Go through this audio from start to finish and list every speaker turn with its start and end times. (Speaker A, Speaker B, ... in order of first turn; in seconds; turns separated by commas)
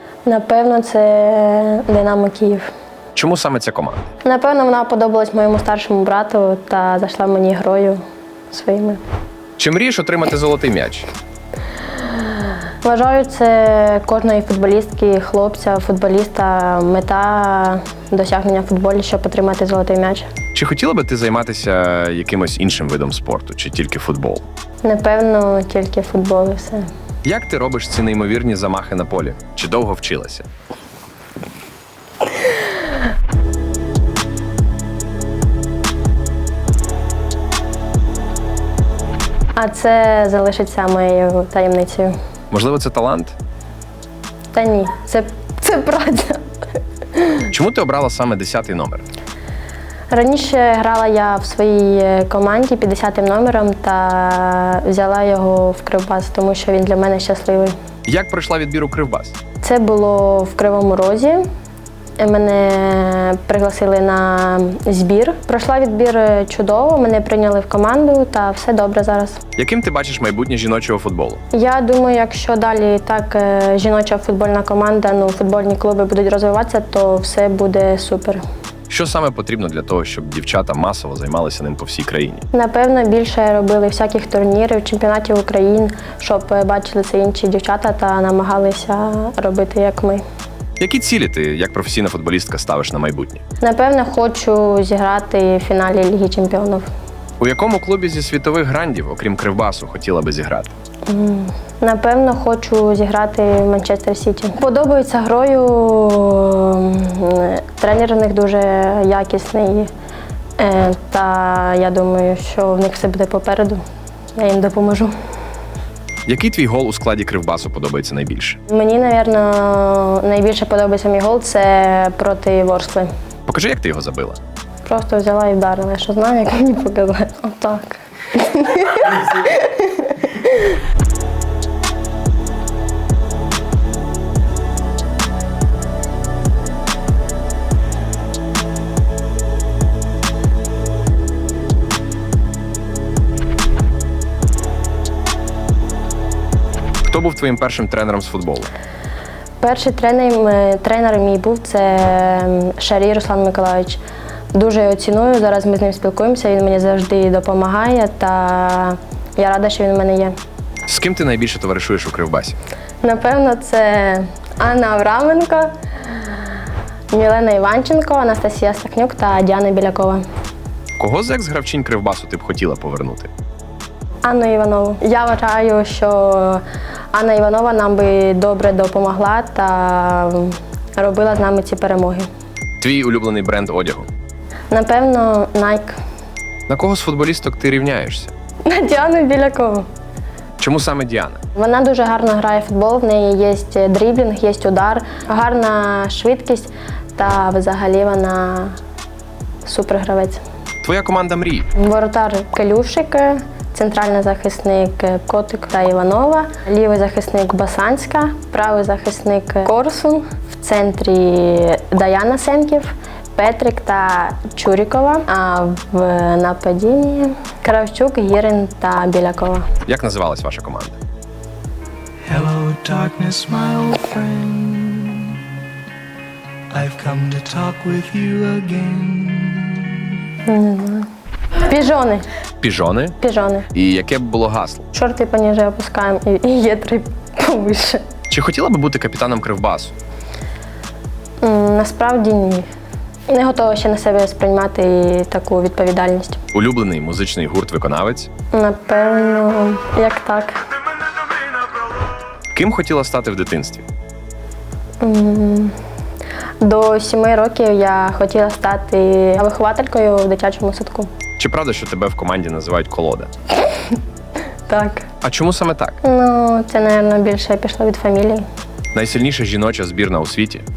Speaker A: 0.3-2.7, Speaker B: 3.1-4.1, Speaker A: 4.2-8.0, Speaker A: 8.5-9.0, Speaker B: 9.6-11.1, Speaker A: 12.8-20.3, Speaker B: 20.5-24.4, Speaker A: 24.8-26.9, Speaker B: 27.2-30.5, Speaker A: 39.6-42.1, Speaker B: 42.5-43.4, Speaker A: 44.5-46.5, Speaker A: 47.1-47.5, Speaker B: 47.5-49.1, Speaker A: 50.1-57.7, Speaker B: 58.1-59.4, Speaker A: 59.6-61.5, Speaker A: 62.2-69.4, Speaker B: 69.6-71.4, Speaker A: 71.5-78.4, Speaker B: 78.9-82.5, Speaker A: 82.5-90.2, Speaker B: 90.8-93.4, Speaker A: 93.6-96.9, Speaker B: 97.4-100.7, Speaker A: 101.1-109.9, Speaker A: 110.6-113.8, Speaker A: 114.4-115.1, Speaker B: 116.3-118.6, Speaker A: 118.7-123.1, Speaker B: 123.5-124.4, Speaker A: 124.8-130.8, Speaker B: 147.0-148.7, Speaker A: 149.6-154.0, Speaker A: 154.5-160.3, Speaker B: 160.9-162.6, Speaker A: 163.0-166.5, Speaker A: 167.1-170.2, Speaker B: 171.0-173.3, Speaker A: 174.2-182.3, Speaker B: 182.8-184.1, Speaker A: 184.7-186.0, Speaker B: 186.7-188.3, Speaker A: 188.7-189.9, Speaker B: 190.6-191.4, Speaker A: 191.6-198.8, Speaker A: 199.6-200.4, Speaker B: 200.8-201.7, Speaker A: 201.8-219.7, Speaker B: 219.9-221.0, Speaker C: 222.2-225.4, Speaker C: 226.7-230.0, Speaker A: 230.4-232.3, Speaker B: 232.6-233.2, Speaker A: 233.2-233.7, Speaker B: 233.7-234.9, Speaker A: 234.9-238.0, Speaker B: 238.3-239.9, Speaker A: 241.4-242.7, Speaker A: 243.3-246.4, Speaker B: 246.5-248.3, Speaker A: 248.5-250.6, Speaker B: 252.5-253.9, Speaker A: 255.0-255.8, Speaker A: 256.6-261.1, Speaker B: 261.4-263.3, Speaker A: 264.7-265.1, Speaker B: 265.2-266.0, Speaker A: 266.0-268.4, Speaker B: 268.9-270.6